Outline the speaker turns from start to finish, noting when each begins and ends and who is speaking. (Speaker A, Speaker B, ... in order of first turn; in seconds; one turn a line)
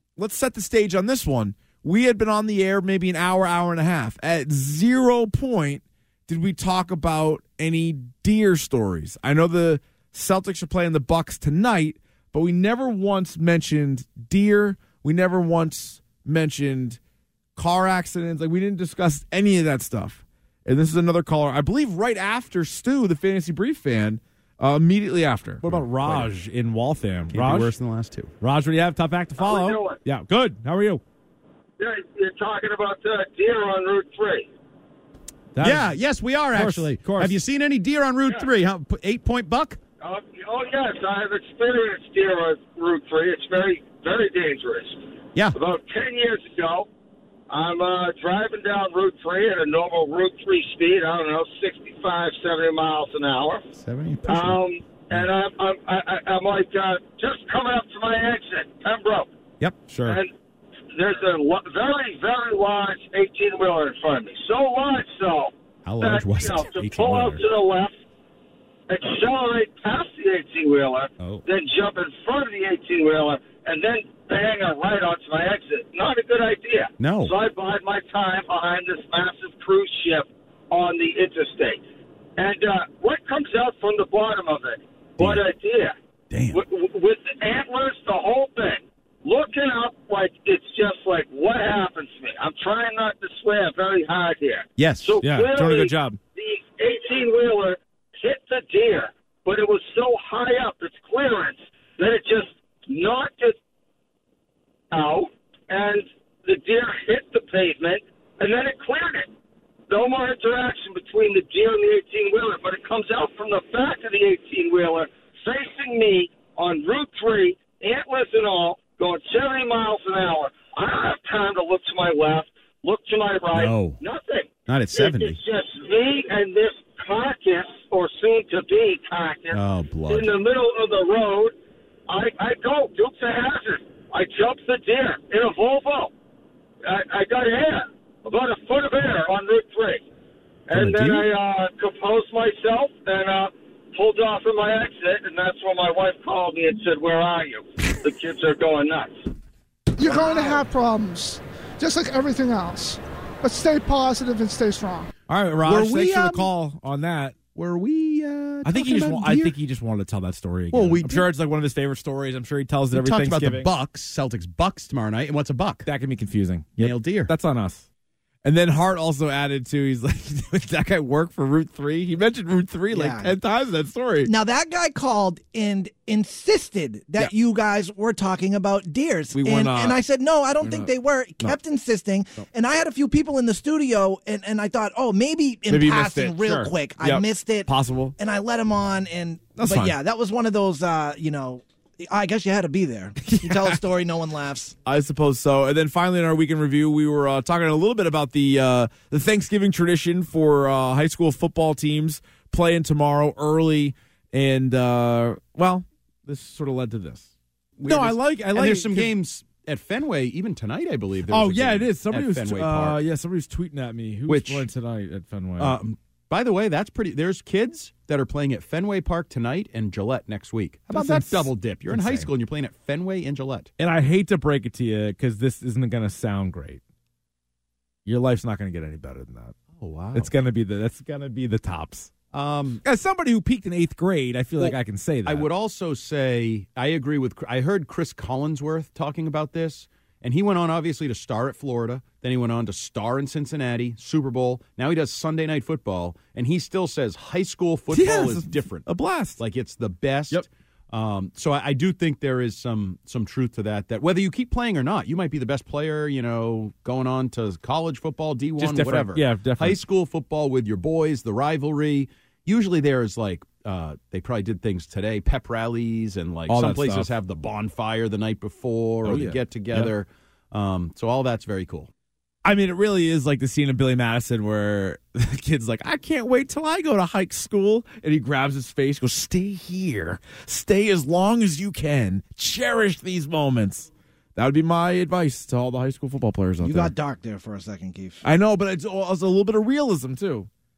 Speaker A: 0.2-17.0
Speaker A: 17.6-27.7
Speaker B: 25.6-26.3
Speaker B: 27.3-28.3
Speaker A: 28.4-31.0
Speaker C: 29.4-30.0
Speaker C: 31.8-34.5
Speaker A: 35.5-35.9
Speaker B: 35.6-39.8
Speaker A: 36.5-37.4
Speaker C: 40.0-46.9
Speaker C: 47.5-53.6
Speaker B: 53.8-54.6
Speaker C: 54.3-59.3
Speaker B: 59.6-59.9
Speaker A: 59.9-60.2
Speaker C: 60.9-67.9
Speaker B: 65.8-67.5
Speaker C: 68.9-81.8
Speaker B: 77.0-77.3
Speaker C: 82.4-86.0
Speaker B: 85.2-85.5
Speaker B: 86.3-86.6
Speaker C: 86.5-103.6
Speaker B: 94.8-95.2
Speaker A: 95.2-96.2
Speaker C: 104.9-109.3
Speaker C: 109.9-131.5
Speaker B: 123.5-124.0
Speaker B: 124.7-125.4
Speaker B: 129.5-130.3
Speaker C: 132.1-136.1
Speaker C: 136.9-140.0
Speaker C: 140.7-149.1
Speaker B: 140.7-141.3
Speaker D: 150.0-155.1
Speaker B: 150.0-150.7
Speaker A: 155.3-157.4
Speaker B: 155.7-156.5
Speaker B: 157.5-159.6
Speaker A: 158.7-163.7
Speaker B: 160.7-161.3
Speaker B: 162.9-165.9
Speaker A: 165.9-167.9
Speaker B: 166.8-167.3
Speaker A: 168.4-174.3
Speaker E: 172.9-173.4
Speaker E: 174.2-194.8
Speaker A: 179.3-180.0
Speaker A: 180.6-181.6
Speaker A: 185.7-188.1
Speaker A: 189.6-190.0
Speaker A: 193.2-193.8
Speaker A: 194.8-207.3
Speaker B: 207.8-213.0
Speaker A: 207.8-209.1
Speaker A: 211.3-215.8
Speaker B: 214.3-214.7
Speaker B: 215.6-223.7
Speaker A: 220.9-222.3
Speaker A: 223.8-226.8
Speaker A: 228.1-229.6
Speaker B: 229.8-230.3
Speaker A: 230.1-232.1
Speaker B: 232.3-232.8
Speaker A: 232.8-235.5
Speaker B: 234.6-248.8
Speaker A: 247.9-249.4
Speaker B: 249.4-271.9
Speaker A: 258.6-259.8
Speaker A: 266.5-267.1
Speaker A: 269.1-269.9
Speaker A: 272.4-286.9
Speaker E: 286.6-288.2
Speaker A: 288.2-290.5